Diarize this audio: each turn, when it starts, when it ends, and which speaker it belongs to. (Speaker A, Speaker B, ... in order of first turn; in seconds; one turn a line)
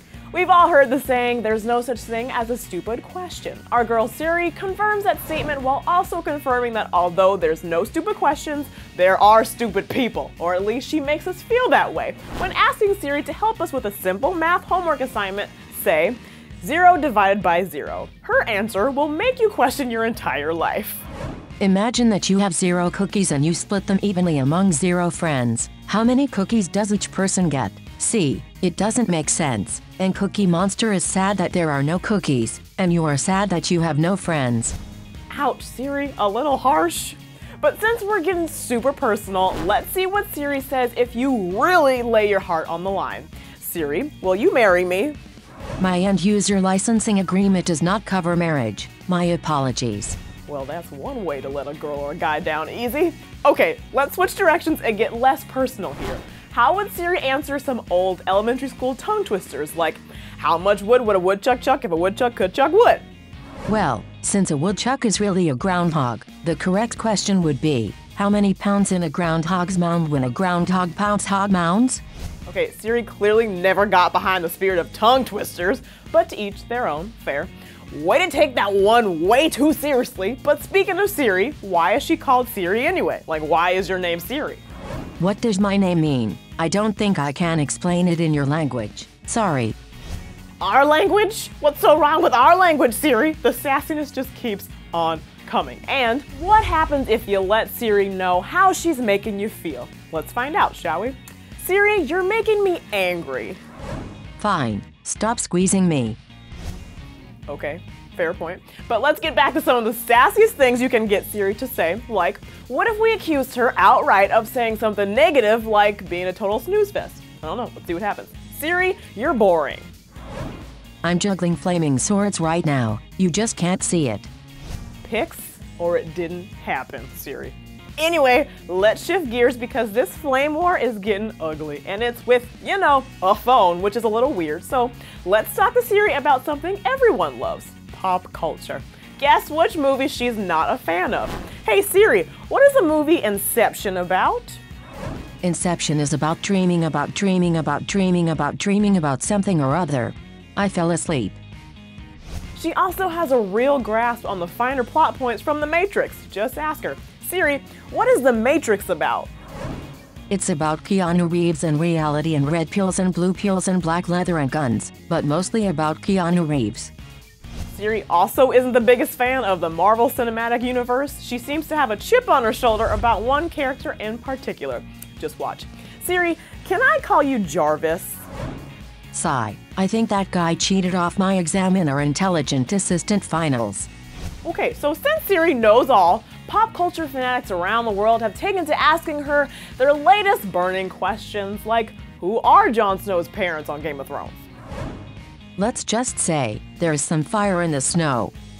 Speaker A: 0.3-21.0
Speaker B: 21.6-34.8
Speaker A: 35.3-45.1
Speaker B: 45.8-50.2
Speaker A: 50.5-63.0
Speaker B: 63.7-72.0
Speaker A: 72.5-84.6
Speaker B: 85.2-89.8
Speaker A: 90.6-103.6
Speaker B: 104.4-106.2
Speaker A: 107.5-119.9
Speaker B: 121.0-124.3
Speaker A: 125.0-144.6
Speaker B: 145.4-151.4
Speaker A: 152.5-159.3
Speaker B: 160.3-166.9
Speaker A: 167.7-178.2
Speaker B: 179.1-183.9
Speaker A: 184.4-194.4
Speaker B: 195.6-198.3